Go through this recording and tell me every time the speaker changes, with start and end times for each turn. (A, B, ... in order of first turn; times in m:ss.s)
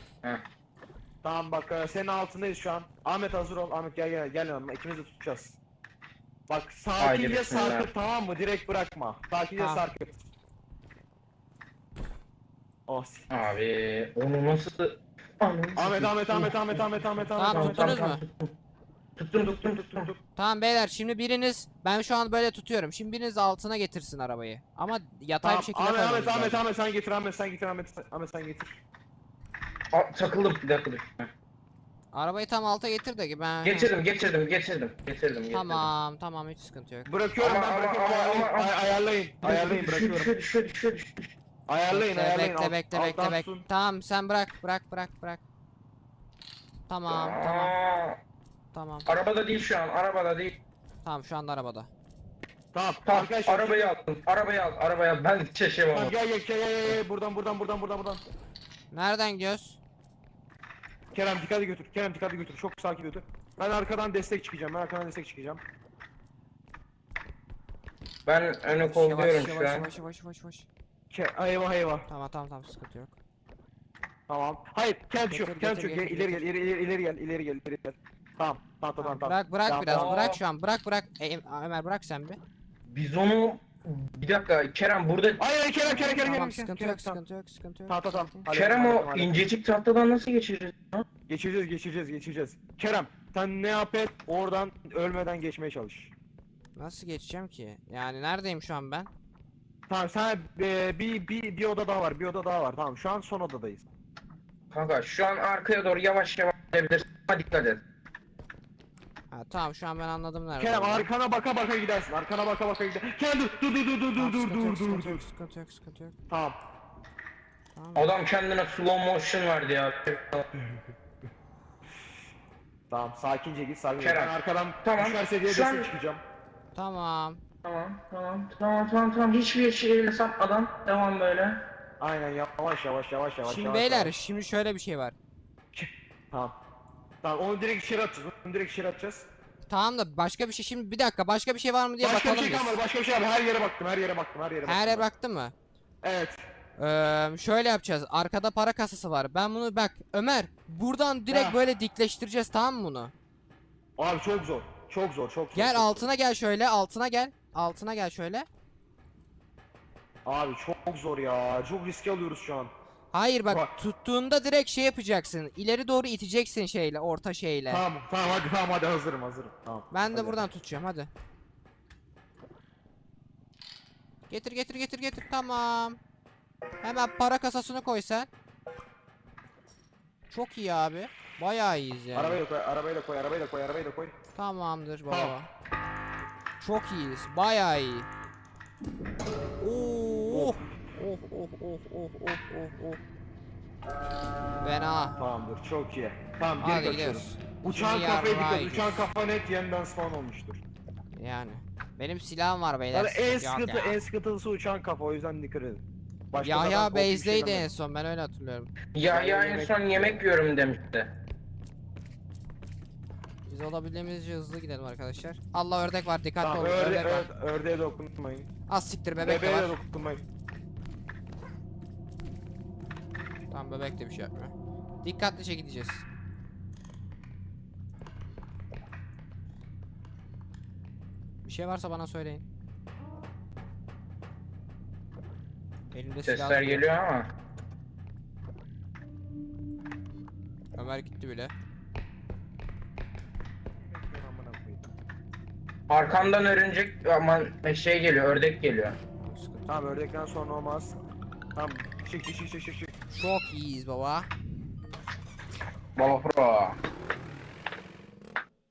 0:01.2-0:05.6 A
0:06.5-0:10.2 A
0:07.0-0:07.9 B
0:09.6-0:09.8 C
0:12.9-0:13.3 A
0:13.3-0:18.5 B
0:15.8-0:18.0 A
0:17.4-0:18.2 C
0:19.2-0:20.1 B
0:19.4-0:20.2 A
0:20.4-0:26.6 C
0:25.4-0:28.8 A
0:29.9-0:31.3 B
0:32.1-0:33.9 C
0:33.6-0:35.9 B
0:35.5-0:37.1 C
0:37.0-0:40.3 A
0:37.4-0:38.7 B
0:39.4-0:41.4 B
0:41.7-0:43.6 A
0:41.9-0:45.4 C
0:46.9-0:47.7 C
0:47.1-0:48.2 B
0:48.7-0:49.1 C
0:49.1-0:50.6 B
0:51.0-0:51.9 C
0:52.7-0:53.9 A
0:53.0-0:56.1 B
0:55.9-0:58.2 A
0:58.9-0:59.8 C
1:01.1-1:05.6 A
1:08.2-1:09.9 B
1:08.8-1:10.7 C
1:11.1-1:12.1 A
1:12.1-1:13.2 C
1:14.3-1:20.1 A
1:15.3-1:16.5 C
1:19.0-1:22.4 C
1:19.9-1:20.4 B
1:22.9-1:25.4 B
1:25.4-1:27.2 A
1:25.8-1:28.5 C
1:27.9-1:29.4 A
1:28.5-1:31.0 B
1:31.3-1:36.1 A
1:36.8-1:39.1 C
1:39.9-1:43.8 A
1:44.7-1:47.8 B
1:49.3-1:51.1 C
1:50.6-1:55.2 A
1:54.2-1:56.2 C
1:56.3-1:56.6 A
1:57.7-1:58.1 C
1:58.0-2:00.5 B
2:02.9-2:06.2 A
2:04.0-2:04.3 B
2:04.8-2:05.9 B
2:06.7-2:07.4 C
2:07.6-2:11.6 B
2:12.0-2:14.1 A
2:13.4-2:15.2 C
2:15.7-2:16.6 A
2:17.2-2:19.3 A
2:19.7-2:22.8 C
2:22.0-2:25.0 A
2:24.6-2:25.5 C
2:26.0-2:26.4 A
2:26.8-2:33.1 C
2:31.3-2:31.6 A
2:34.0-2:36.1 A
2:35.5-2:38.5 C
2:40.2-2:42.7 A
2:43.1-2:47.8 C
2:47.7-2:50.5 A
2:49.9-2:51.1 C
2:54.3-2:56.0 C
2:56.8-2:58.3 C
3:00.3-3:02.4 C
3:02.1-3:04.2 A
3:04.3-3:05.5 C
3:06.6-3:08.1 C
3:09.6-3:13.0 C
3:10.3-3:10.6 A
3:14.6-3:15.2 C
3:15.2-3:20.6 A
3:16.6-3:19.1 C
3:21.1-3:24.0 C
3:22.9-3:27.7 A
3:26.4-3:28.7 C
3:28.9-3:31.1 B
3:29.1-3:30.3 A
3:33.4-3:37.3 C
3:36.4-3:38.5 A
3:38.7-3:39.8 C
3:39.2-3:40.2 A
3:43.5-3:46.0 C
3:51.4-3:52.4 C
3:55.9-3:56.8 C
3:56.2-3:57.3 B
4:00.8-4:01.5 C
4:03.8-4:04.9 A
4:05.9-4:09.0 B
4:09.2-4:09.9 C
4:09.7-4:11.0 A
4:11.5-4:12.9 A
4:13.1-4:14.3 C
4:16.0-4:16.8 B